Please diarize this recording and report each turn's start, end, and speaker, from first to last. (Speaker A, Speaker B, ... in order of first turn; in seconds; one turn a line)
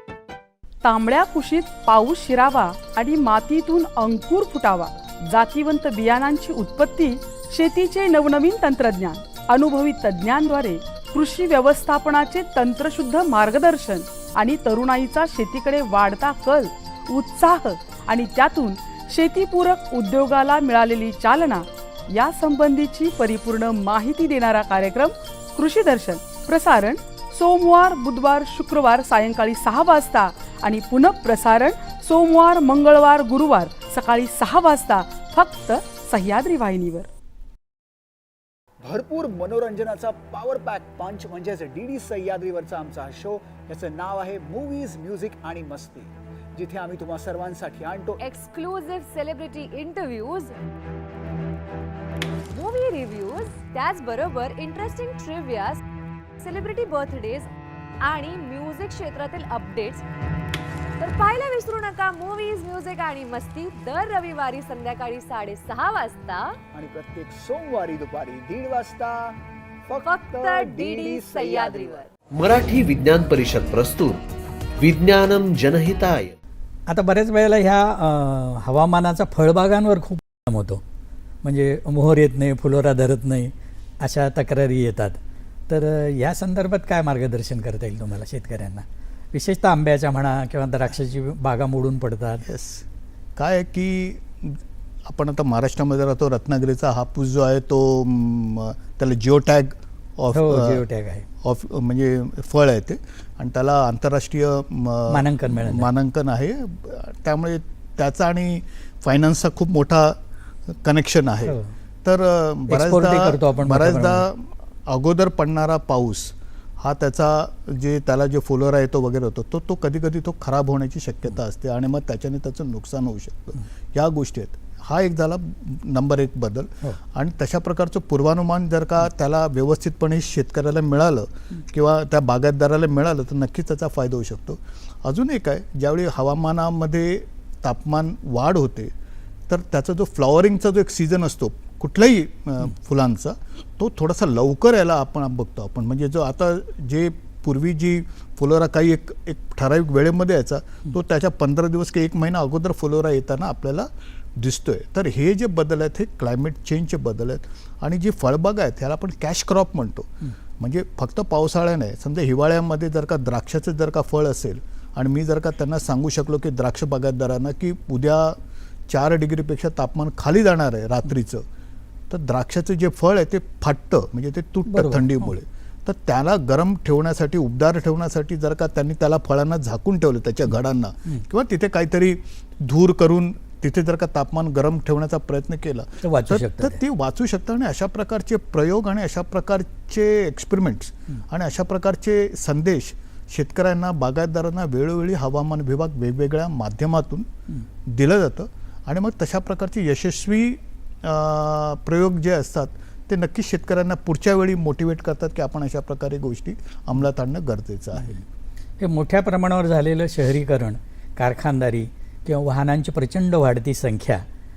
Speaker A: 0.8-37.1
Speaker B: 38.8-48.2
Speaker C: 48.2-50.5
Speaker C: 52.5-55.8
Speaker C: 56.4-57.5
Speaker C: 58.0-60.0
Speaker C: 61.0-66.6
Speaker B: 66.7-69.3
Speaker B: 69.9-72.0
Speaker C: 70.0-72.1
Speaker D: 72.3-74.2
Speaker D: 74.8-76.4
Speaker E: 76.9-80.8
Speaker E: 81.4-85.2
Speaker E: 85.7-92.5
Speaker F: 92.5-92.8
Speaker F: 93.4-100.8
Speaker E: 100.3-101.3
Speaker F: 101.4-110.2
Speaker E: 105.1-105.9
Speaker F: 110.7-138.9
Speaker E: 112.7-114.2
Speaker F: 139.5-171.4
Speaker F: 172.1-197.3
Speaker E: 174.7-175.3
Speaker E: 186.0-186.8
Speaker F: 197.9-208.2
Speaker E: 208.8-214.2